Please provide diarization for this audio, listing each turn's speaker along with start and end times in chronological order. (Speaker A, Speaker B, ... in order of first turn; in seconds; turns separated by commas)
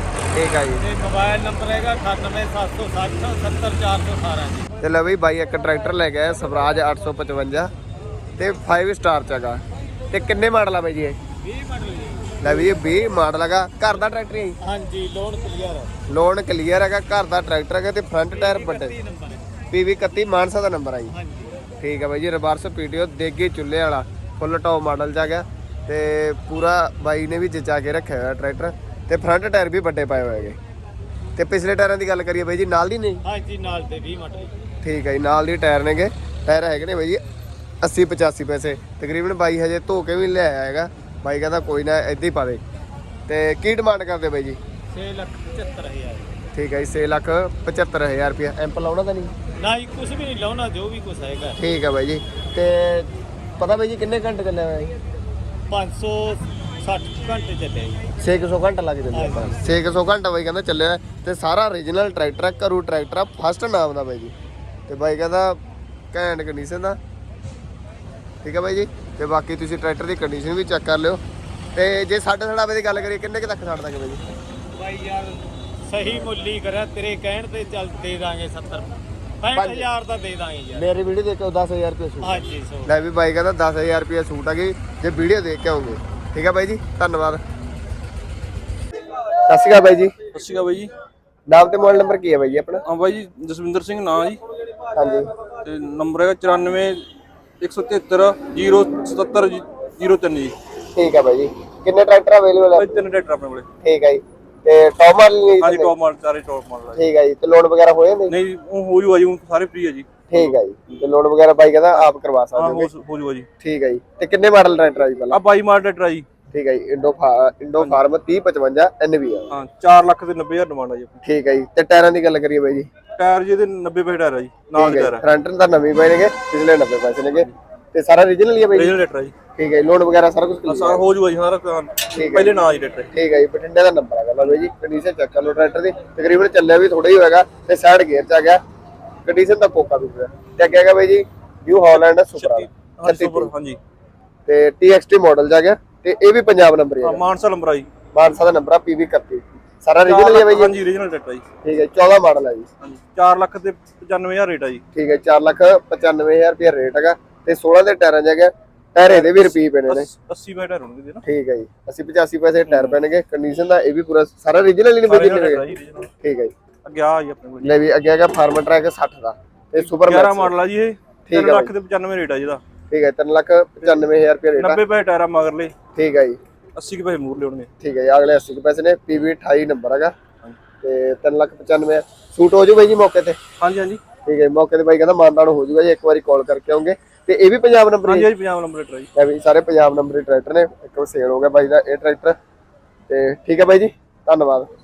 Speaker A: 0.3-0.8, Speaker B: 0.8-4.7, Speaker A: 4.8-7.7, Speaker A: 8.4-11.2, Speaker B: 11.4-12.4, Speaker A: 12.4-14.6, Speaker B: 14.6-15.9, Speaker A: 16.1-19.0, Speaker B: 18.3-19.6, Speaker A: 19.7-21.1, Speaker B: 21.1-21.6, Speaker A: 21.8-30.6, Speaker A: 31.4-33.2, Speaker B: 33.2-34.5, Speaker A: 34.8-37.2, Speaker A: 37.8-42.6, Speaker A: 43.3-44.6, Speaker B: 44.9-46.3, Speaker A: 46.5-49.3, Speaker B: 49.6-51.6, Speaker A: 51.6-54.9, Speaker B: 55.7-58.0, Speaker A: 58.2-64.3, Speaker B: 59.1-59.8, Speaker A: 64.9-65.6, Speaker A: 66.1-67.0, Speaker A: 68.4-71.2, Speaker A: 71.7-74.2, Speaker B: 74.7-80.9, Speaker A: 79.5-79.9, Speaker A: 80.7-87.4, Speaker B: 82.2-82.9, Speaker A: 89.5-90.1, Speaker C: 90.3-90.9, Speaker A: 91.5-92.8, Speaker C: 92.9-94.4, Speaker A: 95.0-95.3, Speaker C: 95.6-97.0, Speaker C: 97.6-100.5, Speaker A: 100.9-103.0, Speaker C: 102.7-103.7, Speaker A: 103.8-105.9, Speaker C: 105.6-107.0, Speaker A: 106.9-108.3, Speaker C: 108.3-110.5, Speaker A: 110.3-112.9, Speaker C: 111.9-113.5, Speaker A: 113.6-115.4, Speaker C: 115.3-116.2, Speaker A: 116.5-119.5, Speaker C: 119.5-121.2, Speaker A: 121.2-122.9, Speaker C: 123.2-125.2, Speaker A: 124.8-128.9, Speaker C: 128.7-129.3, Speaker A: 129.5-131.1, Speaker C: 130.7-133.1, Speaker A: 132.1-132.5, Speaker A: 133.1-138.6, Speaker A: 139.2-143.5, Speaker C: 141.9-143.8, Speaker A: 144.4-147.2, Speaker C: 147.0-147.9, Speaker A: 148.1-150.7, Speaker C: 150.0-151.4, Speaker A: 151.6-152.7, Speaker C: 152.8-154.8, Speaker A: 154.9-160.1, Speaker C: 159.0-161.2, Speaker A: 161.2-165.7, Speaker C: 162.7-163.0, Speaker C: 165.1-166.1, Speaker A: 166.2-166.5, Speaker C: 166.8-167.8, Speaker A: 167.6-170.5, Speaker C: 169.8-172.6, Speaker A: 171.3-171.7, Speaker A: 172.9-174.8, Speaker C: 174.6-175.7, Speaker A: 175.9-176.4, Speaker C: 176.8-177.7, Speaker A: 177.8-180.1, Speaker A: 180.8-183.4, Speaker C: 183.6-184.0, Speaker A: 184.2-188.3, Speaker C: 188.0-189.1, Speaker A: 189.1-192.3, Speaker A: 193.1-194.7